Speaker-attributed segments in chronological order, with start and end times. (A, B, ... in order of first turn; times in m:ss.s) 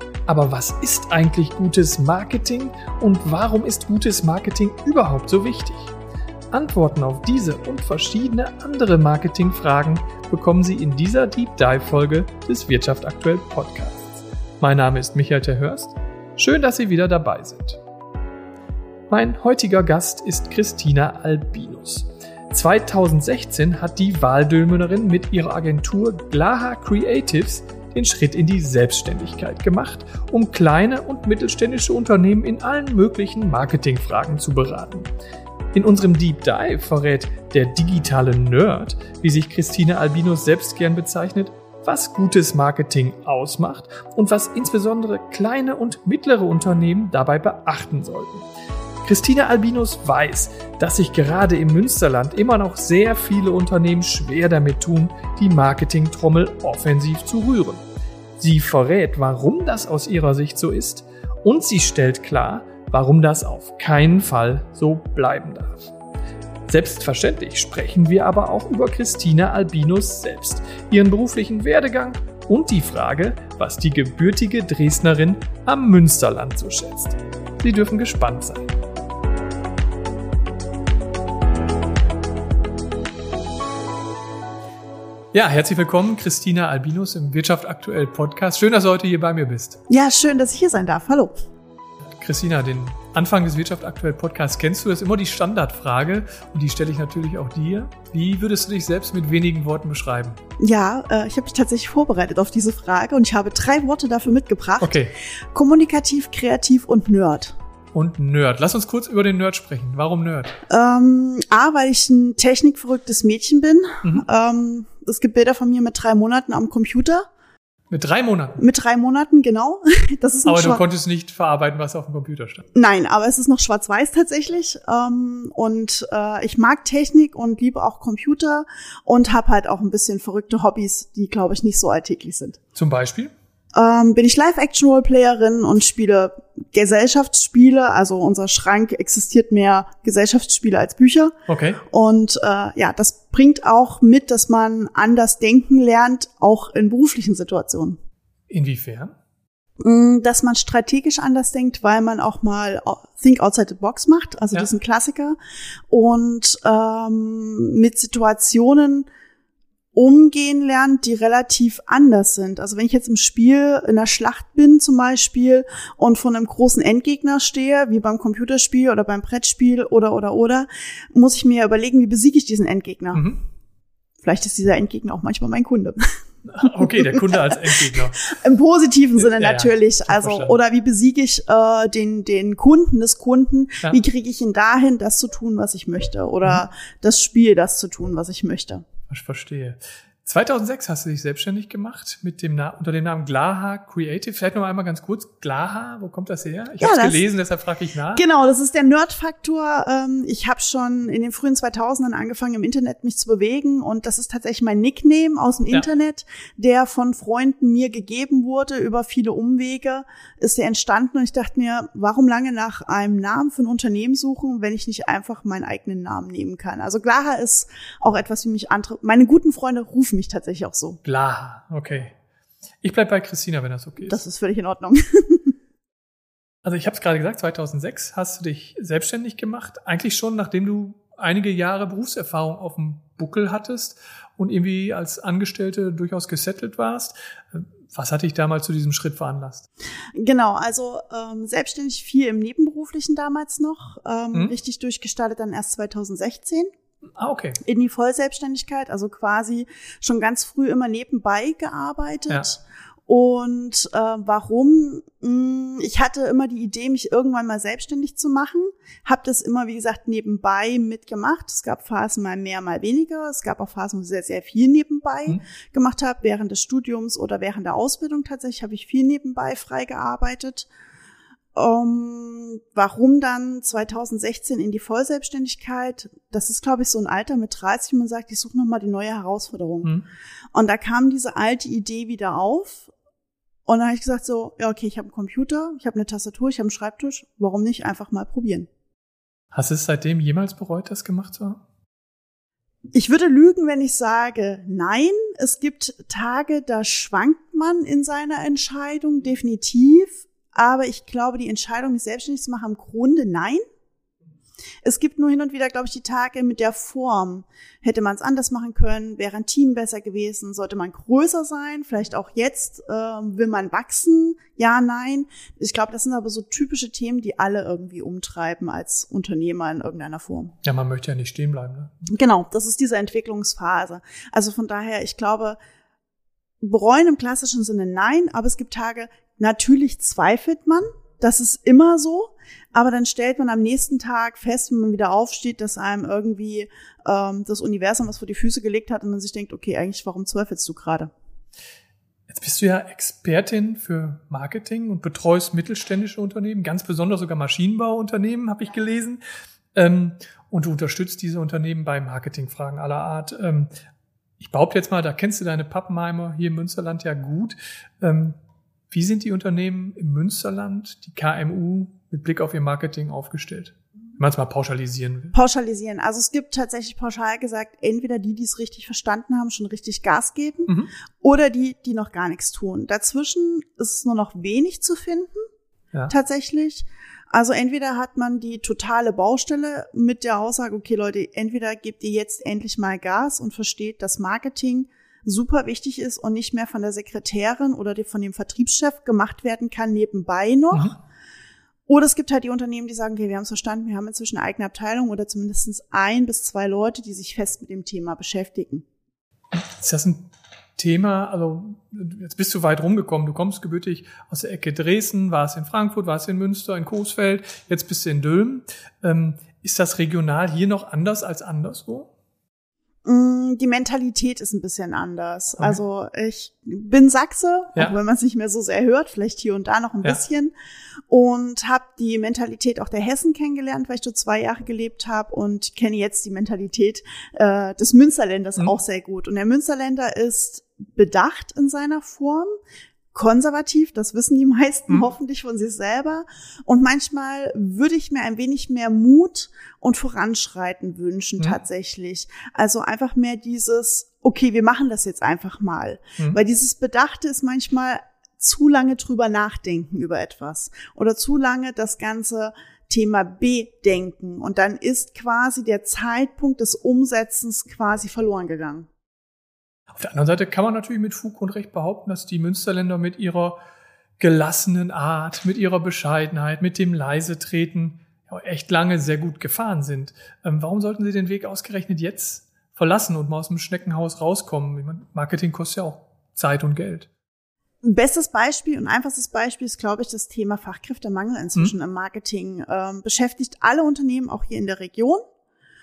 0:00.3-0:06.0 A
0:06.5-0:17.8 A
0:19.1-0:35.1 A
0:35.7-0:48.5 A
0:49.0-0:57.8 A
0:58.4-1:05.9 A
1:06.7-1:18.7 A
1:25.3-1:29.8 A
1:29.9-1:31.3 B
1:32.2-1:40.4 A
1:40.6-1:47.6 B
1:44.8-1:45.1 A
1:47.9-1:50.5 A
1:50.7-1:57.3 B
1:57.9-1:58.6 A
1:58.6-2:00.8 B
2:00.4-2:02.6 A
2:02.7-2:12.6 B
2:12.7-2:13.3 A
2:13.7-2:28.0 B
2:21.5-2:21.8 A
2:28.5-2:29.1 A
2:29.8-2:35.4 B
2:35.9-2:39.1 B
2:39.9-2:53.2 B
2:53.1-2:53.4 A
2:54.2-2:56.1 B
2:56.4-2:58.3 A
2:56.6-3:08.8 B
2:59.2-3:00.6 A
3:09.1-3:18.2 A
3:16.8-3:17.2 B
3:18.1-3:41.0 B
3:41.0-3:42.2 A
3:42.8-3:44.2 A
3:44.0-3:45.5 B
3:46.6-3:59.7 A
4:00.2-4:06.7 B
4:07.2-4:07.6 A
4:07.6-4:30.7 B
4:31.5-4:40.0 B
4:40.5-4:42.9 B
4:43.7-4:48.7 B
4:49.5-4:51.6 A
4:52.9-5:03.6 B
5:04.8-5:20.5 B
5:20.6-5:22.0 A
5:22.0-5:25.6 B
5:26.6-5:41.1 B
5:42.3-5:49.2 A
5:49.7-5:53.7 A
5:54.4-5:58.4 A
5:58.9-6:05.3 A
6:05.3-6:15.4 B
6:16.1-6:30.9 B
6:31.9-6:38.8 B
6:39.5-6:52.1 A
6:53.0-7:00.5 B
7:01.1-7:12.5 B
7:13.1-7:38.9 B
7:39.9-7:43.6 A
7:44.2-7:57.1 A
7:57.8-8:05.2 B